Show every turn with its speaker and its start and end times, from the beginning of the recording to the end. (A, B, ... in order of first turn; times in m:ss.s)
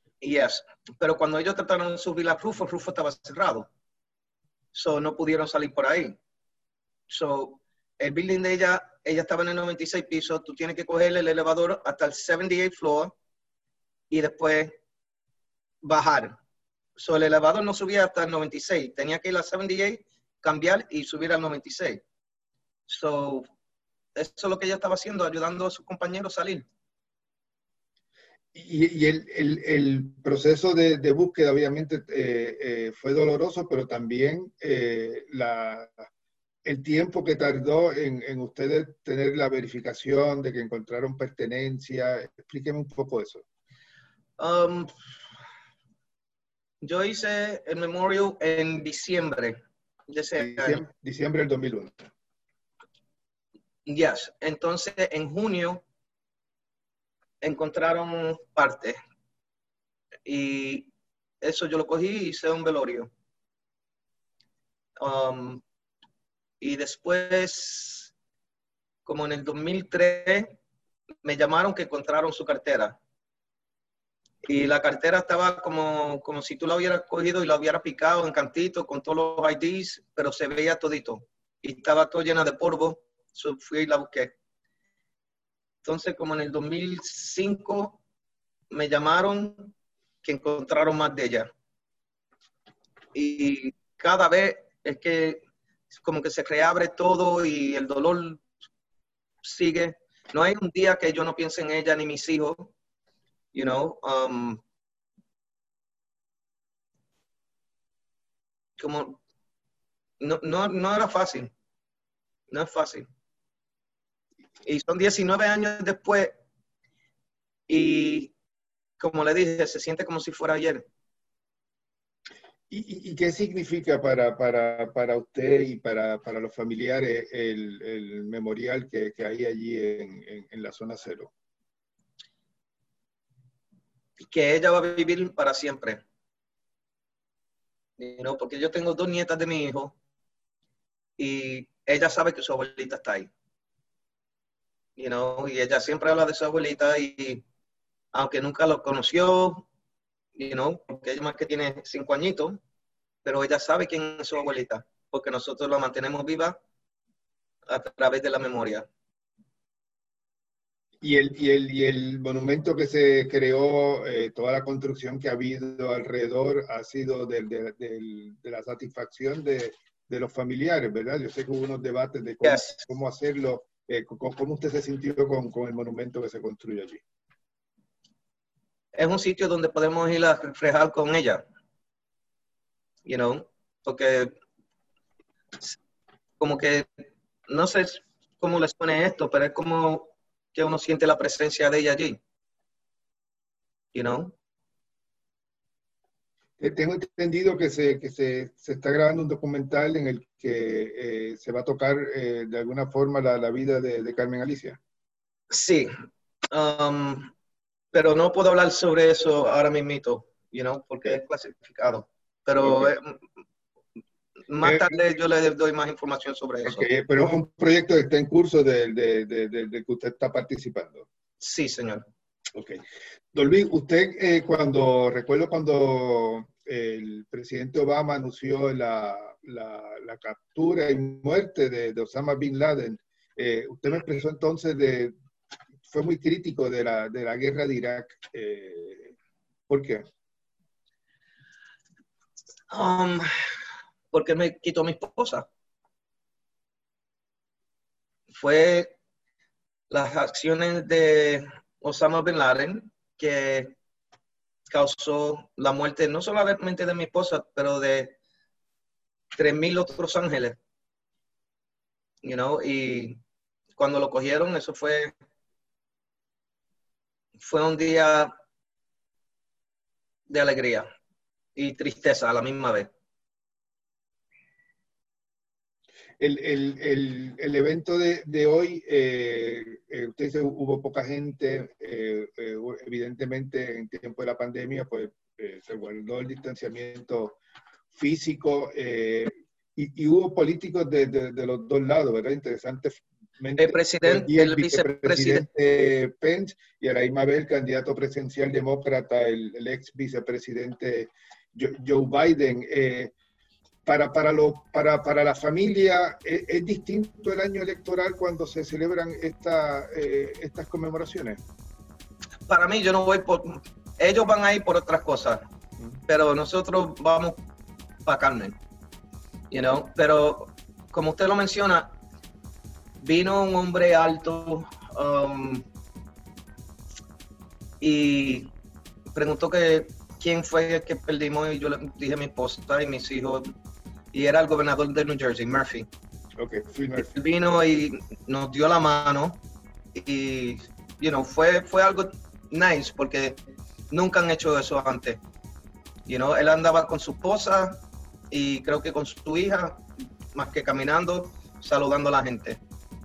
0:00.2-0:03.7 A
0:04.7-0:06.1 A
0:07.1-0:13.1 A
0:14.1-0:14.7 A
0:15.8-0:16.3 A
0:17.0-0:22.0 A
0:22.9-0:23.5 A
0:24.2-0:26.7 A
0:28.5-0:36.1 B
0:36.6-0:43.4 B
0:44.4-0:44.9 A
0:46.8-0:49.6 A
0:50.1-0:50.8 A
0:50.4-0:52.0 B
0:53.9-0:55.8 A
0:57.4-0:59.0 A
1:00.2-1:00.9 A
1:01.4-1:03.1 A
1:05.0-1:05.6 A
1:06.6-1:08.1 A
1:09.0-1:10.6 A
1:11.2-1:13.0 A
1:14.4-1:24.3 A
1:25.8-1:28.0 A
1:28.7-1:31.5 A
1:33.1-1:35.4 A
1:36.0-1:38.4 A
1:39.4-1:42.7 A
1:43.5-1:44.6 A
1:48.8-1:49.2 A
1:50.2-1:51.5 A
1:52.5-1:53.0 A
1:54.6-1:56.4 A
1:57.7-1:58.3 A
1:59.0-2:00.8 A
2:02.7-2:11.3 B
2:14.3-2:16.0 A
2:18.0-2:20.0 A
2:21.2-2:23.3 A
2:25.0-2:27.4 A
2:28.1-2:29.7 A
2:30.4-2:32.6 A
2:33.2-2:36.6 A
2:37.7-2:38.9 A
2:41.0-2:57.0 B
2:52.4-2:52.8 A
2:59.0-3:01.4 A
3:03.1-3:04.4 A
3:06.4-3:06.9 A
3:07.5-3:12.2 A
3:13.9-3:14.4 A
3:16.6-3:24.8 B
3:25.5-3:25.9 A
3:26.5-3:27.3 A
3:27.9-3:33.2 A
3:32.6-3:32.9 B
3:34.5-3:36.9 A
3:34.6-3:34.9 B
3:36.7-3:41.1 B
3:41.4-3:42.0 A
3:43.3-3:55.1 B
3:55.9-3:59.1 B
3:59.7-4:00.0 B
4:02.7-4:03.3 A
4:04.1-4:05.5 A
4:08.3-4:08.9 A
4:09.9-4:13.7 A
4:14.7-4:18.2 A
4:19.4-4:20.6 A
4:22.2-4:23.2 A
4:23.8-4:25.1 A
4:27.4-4:28.3 A
4:30.3-4:30.9 A
4:31.6-4:32.9 A
4:36.2-4:47.4 B
4:47.9-5:03.1 B
4:53.6-4:55.5 A
5:03.8-5:11.4 B
5:12.5-5:15.4 A
5:16.1-5:17.4 A
5:18.0-5:18.6 A
5:19.5-5:22.0 A
5:23.0-5:25.6 A
5:27.8-5:28.5 A
5:29.1-5:33.5 A
5:34.1-5:35.9 A
5:36.4-5:37.1 B
5:37.0-5:39.4 A
5:39.9-5:43.4 A
5:43.9-5:45.2 A
5:46.1-5:52.6 A